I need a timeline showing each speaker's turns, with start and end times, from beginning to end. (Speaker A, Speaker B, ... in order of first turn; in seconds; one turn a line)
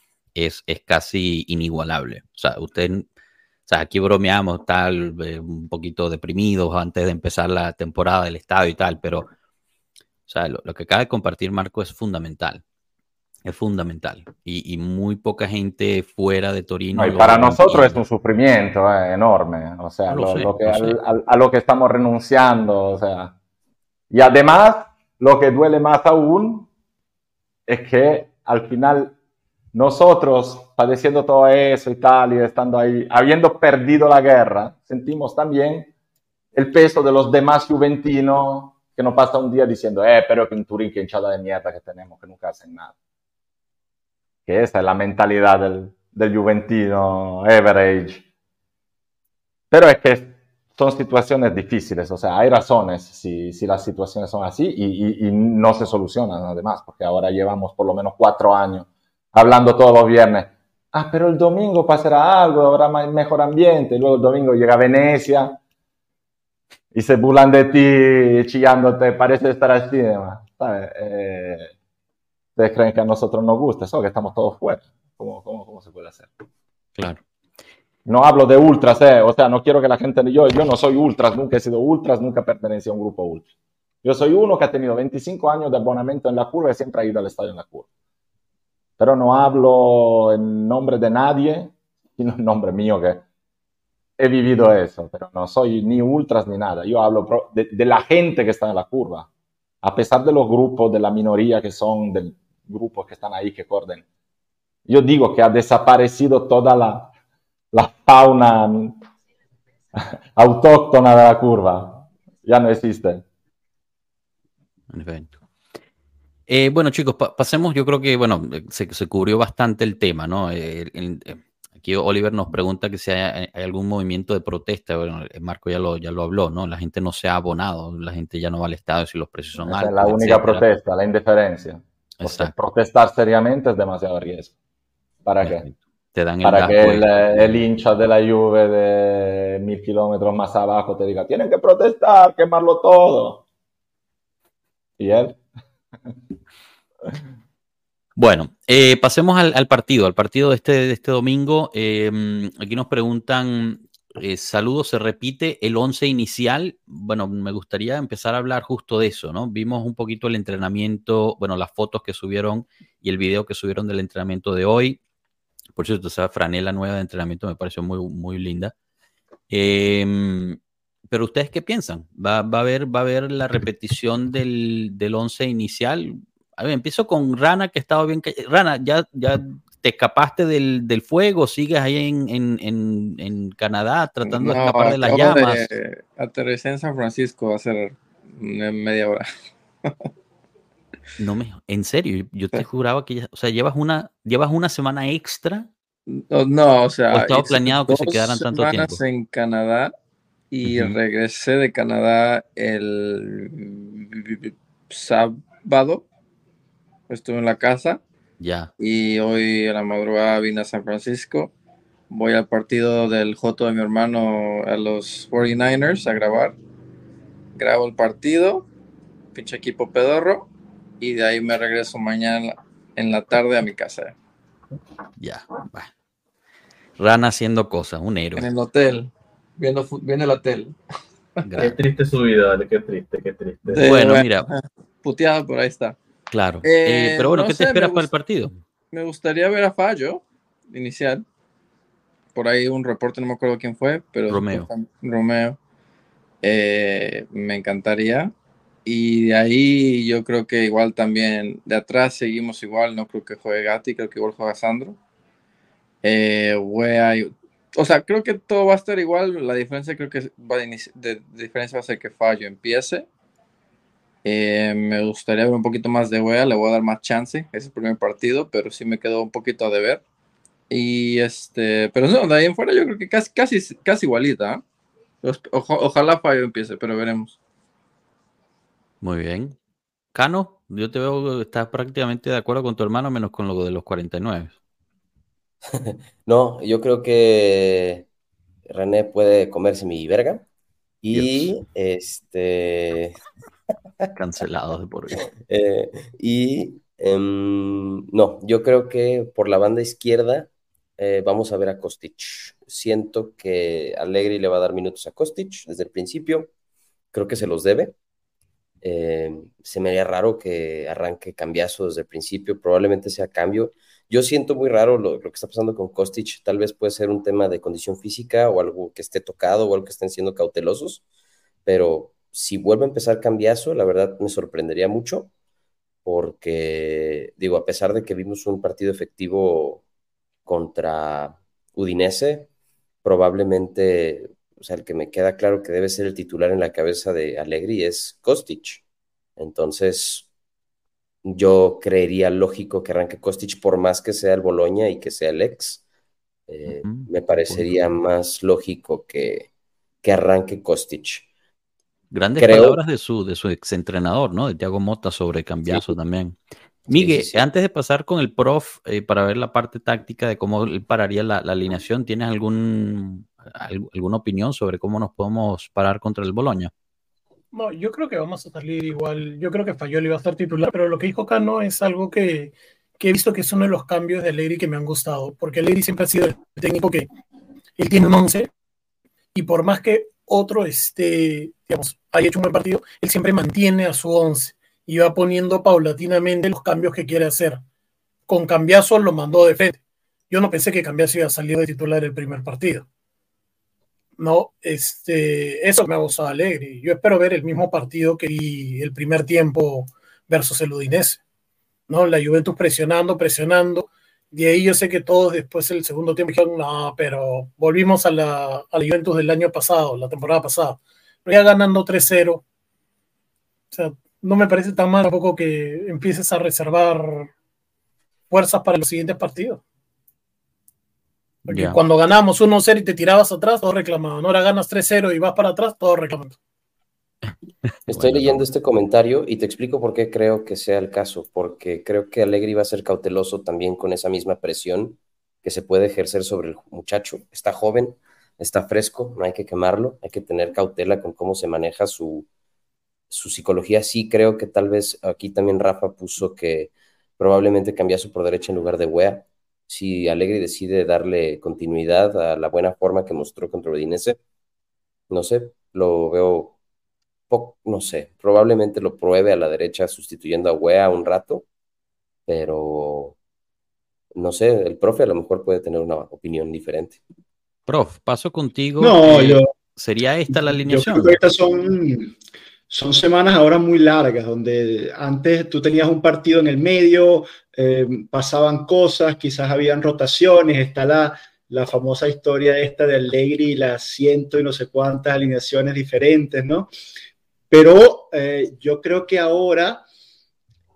Speaker A: 0.3-3.1
Speaker A: 3.7-9.3
Speaker A: 10.3-12.6
Speaker A: 13.4-18.0
Speaker B: 16.9-23.3
Speaker A: 20.1-21.0
Speaker B: 24.1-26.7
Speaker B: 27.7-29.1
Speaker B: 29.7-35.9
Speaker B: 36.5-42.9
Speaker B: 44.5-48.2
Speaker B: 49.7-65.6
Speaker B: 66.9-71.7
Speaker B: 72.5-76.3
Speaker A: 77.0-77.2
Speaker B: 78.0-83.5
Speaker B: 84.0-87.8
Speaker B: 89.0-93.2
Speaker B: 94.2-99.3
Speaker B: 99.8-104.0
Speaker B: 104.9-107.1
Speaker B: 107.7-109.0
Speaker B: 110.0-113.2
Speaker A: 114.9-115.3
Speaker A: 116.5-130.6
Speaker B: 129.6-134.5
Speaker A: 132.2-132.5
Speaker B: 135.2-135.7
Speaker A: 135.4-137.7
Speaker B: 136.4-143.4
Speaker B: 145.0-145.4
Speaker A: 148.2-165.0
Speaker A: 165.8-168.7
Speaker A: 169.5-170.6
Speaker A: 171.1-185.7
Speaker C: 184.2-189.2
Speaker A: 191.2-195.7
Speaker C: 196.1-199.9
Speaker A: 197.1-199.0
Speaker C: 200.5-206.1
Speaker A: 200.6-201.0
Speaker C: 207.1-208.0
Speaker A: 208.4-208.7
Speaker C: 208.8-211.5
Speaker C: 212.1-216.6
Speaker C: 217.5-218.7
Speaker C: 219.3-224.1
Speaker A: 225.2-225.9
Speaker A: 227.0-228.5
Speaker C: 228.3-230.8
Speaker A: 231.4-231.8
Speaker D: 231.6-233.9
Speaker C: 233.7-235.9
Speaker A: 233.8-234.5
Speaker A: 236.3-238.6
Speaker C: 236.6-238.1
Speaker C: 238.9-241.2
Speaker C: 242.3-245.6
Speaker A: 244.3-244.7
Speaker C: 246.4-248.3
Speaker C: 248.8-255.0
Speaker C: 256.0-263.1
Speaker C: 264.2-270.0
Speaker C: 270.7-274.6
Speaker C: 275.2-277.4
Speaker A: 279.0-279.6
Speaker A: 280.1-284.6
Speaker E: 285.7-288.1
Speaker E: 288.7-290.4
Speaker E: 291.0-293.1
Speaker A: 291.1-291.5
Speaker A: 294.1-295.2
Speaker E: 295.2-306.5
Speaker E: 307.1-307.9
Speaker E: 308.8-321.0
Speaker E: 321.6-325.3
Speaker E: 326.0-329.8
Speaker E: 330.4-332.5
Speaker E: 333.0-338.8
Speaker E: 339.4-340.3
Speaker E: 341.2-345.8
Speaker E: 346.5-349.5
Speaker A: 346.6-347.7
Speaker E: 350.0-351.3
Speaker A: 352.1-356.4
Speaker E: 352.4-352.8
Speaker E: 356.9-357.5
Speaker A: 356.9-366.7
Speaker F: 367.5-377.1
Speaker F: 377.8-378.5
Speaker F: 379.3-387.6
Speaker F: 388.3-392.9
Speaker F: 394.2-401.2
Speaker F: 401.9-412.4
Speaker F: 413.7-417.3
Speaker F: 418.3-419.6
Speaker A: 421.4-421.8
Speaker F: 421.5-426.4
Speaker A: 427.9-428.4
Speaker E: 427.9-442.3
Speaker E: 443.1-454.2
Speaker E: 455.1-456.5
Speaker E: 457.3-461.4
Speaker E: 462.3-463.2
Speaker E: 464.1-467.0
Speaker A: 467.7-471.2
Speaker G: 468.8-469.5
Speaker G: 470.3-472.1
Speaker G: 472.7-486.7
Speaker G: 487.5-489.8